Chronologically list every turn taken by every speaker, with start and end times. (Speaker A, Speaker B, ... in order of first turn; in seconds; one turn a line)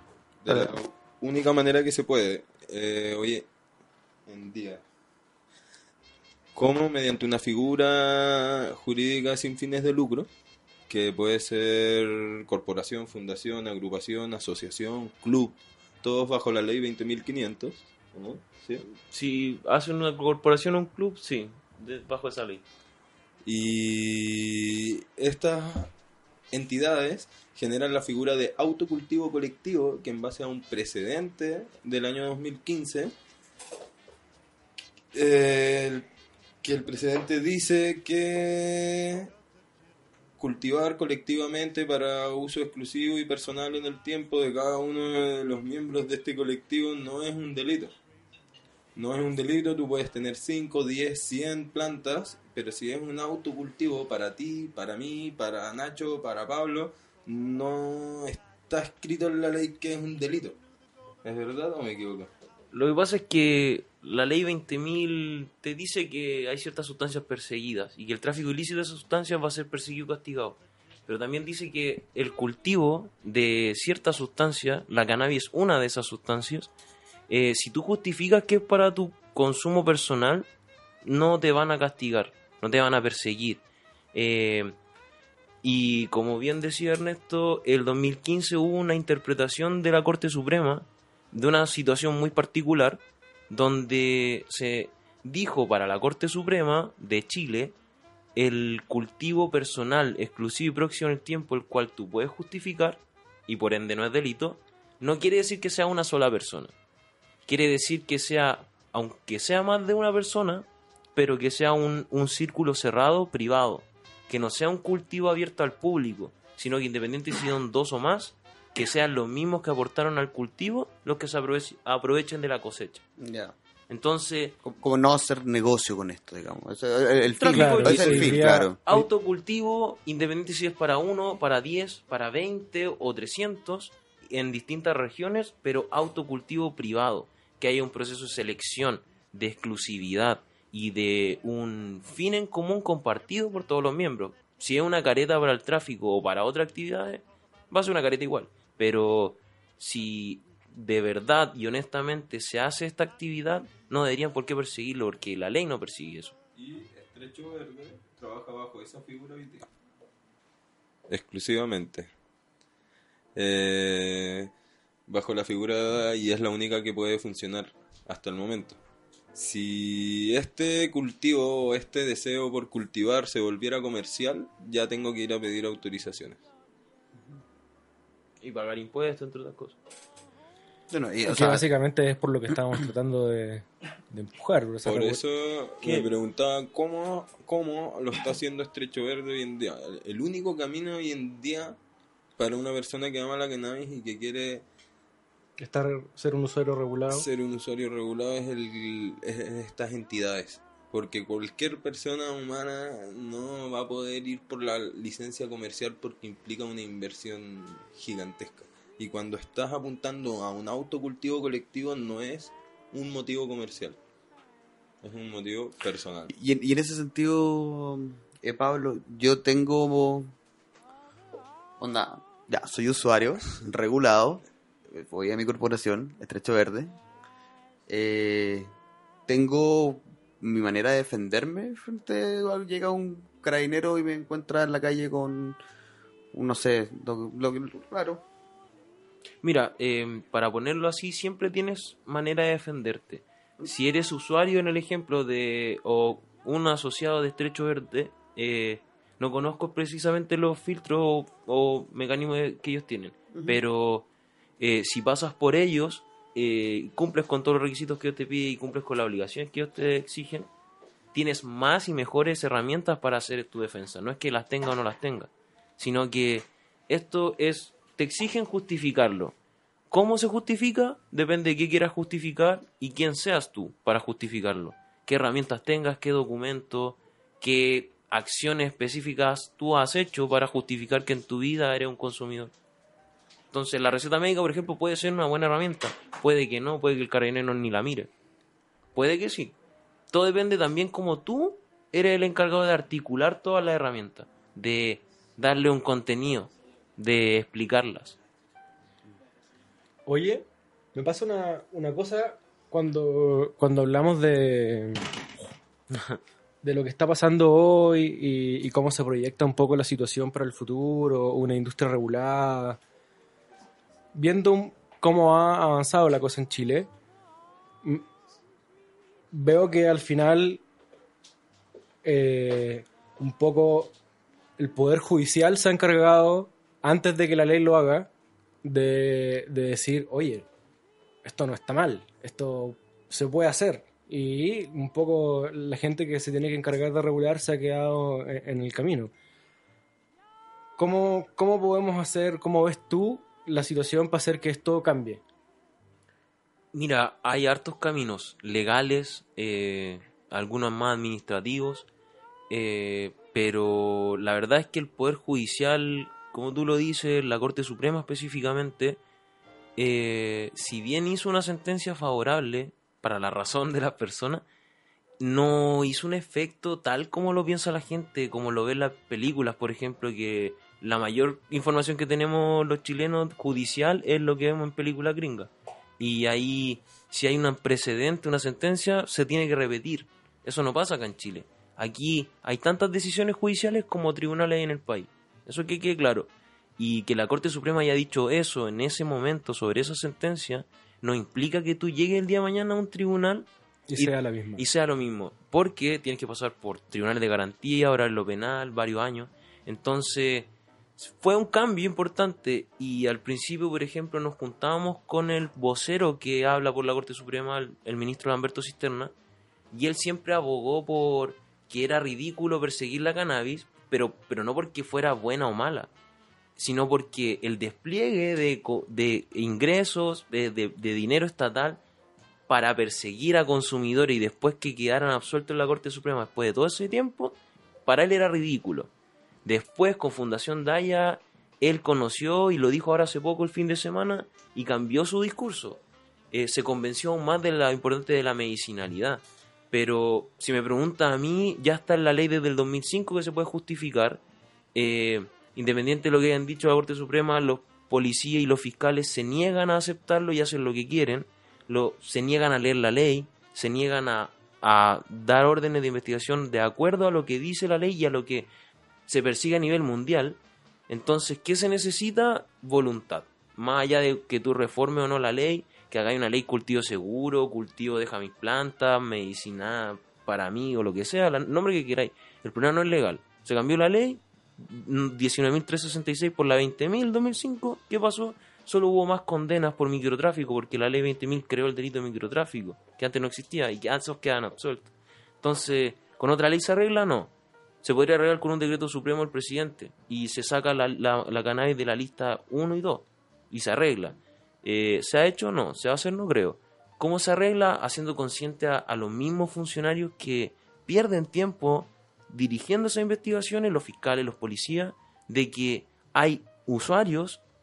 Speaker A: 0.4-3.5
Speaker B: 0.5-0.7
Speaker A: 4.3-4.8
Speaker A: 6.6-10.3
Speaker A: 10.9-18.9
Speaker C: 19.1-22.6
Speaker A: 23.4-25.9
Speaker A: 26.5-33.1
Speaker A: 35.1-36.1
Speaker A: 36.6-39.3
Speaker A: 40.4-47.9
Speaker A: 49.0-60.6
Speaker A: 61.2-62.3
Speaker C: 62.7-76.7
Speaker C: 77.3-80.5
Speaker C: 81.0-83.6
Speaker C: 84.1-84.8
Speaker C: 85.6-97.8
Speaker C: 98.4-106.7
Speaker C: 107.5-123.0
Speaker B: 123.2-123.5
Speaker C: 123.9-124.6
Speaker B: 124.6-128.8
Speaker C: 127.3-156.3
Speaker D: 127.5-129.0
Speaker A: 156.6-159.7
Speaker A: 161.1-162.1
Speaker A: 163.3-164.5
Speaker A: 165.1-168.8
Speaker A: 169.3-176.4
Speaker C: 178.4-179.8
Speaker B: 180.9-181.7
Speaker D: 181.3-185.2
Speaker A: 184.8-191.8
Speaker A: 192.4-194.7
Speaker D: 195.6-197.3
Speaker A: 197.1-214.0
Speaker A: 215.0-216.3
Speaker B: 216.3-220.3
Speaker B: 221.8-227.0
Speaker B: 227.9-228.7
Speaker B: 229.3-235.6
Speaker B: 236.3-238.2
Speaker C: 239.4-254.1
Speaker B: 253.3-253.6
Speaker C: 254.6-260.5
Speaker C: 261.1-269.4
Speaker C: 269.9-282.5
Speaker C: 283.5-288.1
Speaker C: 288.9-289.6
Speaker C: 290.1-298.2
Speaker D: 300.1-305.1
Speaker C: 305.9-306.2
Speaker D: 306.6-312.8
Speaker D: 314.1-316.9
Speaker D: 319.3-320.6
Speaker D: 322.0-323.9
Speaker D: 324.6-328.1
Speaker D: 328.6-330.5
Speaker D: 331.2-339.1
Speaker D: 340.8-345.2
Speaker C: 346.7-351.9
Speaker C: 352.5-359.0
Speaker C: 359.8-364.5
Speaker C: 365.2-409.1
Speaker D: 393.9-394.6
Speaker C: 409.7-415.9
Speaker C: 416.6-421.8
Speaker C: 422.5-428.9
Speaker C: 429.4-435.8
Speaker C: 436.3-444.2
Speaker C: 444.8-458.5
Speaker C: 459.1-487.3
Speaker C: 487.8-507.4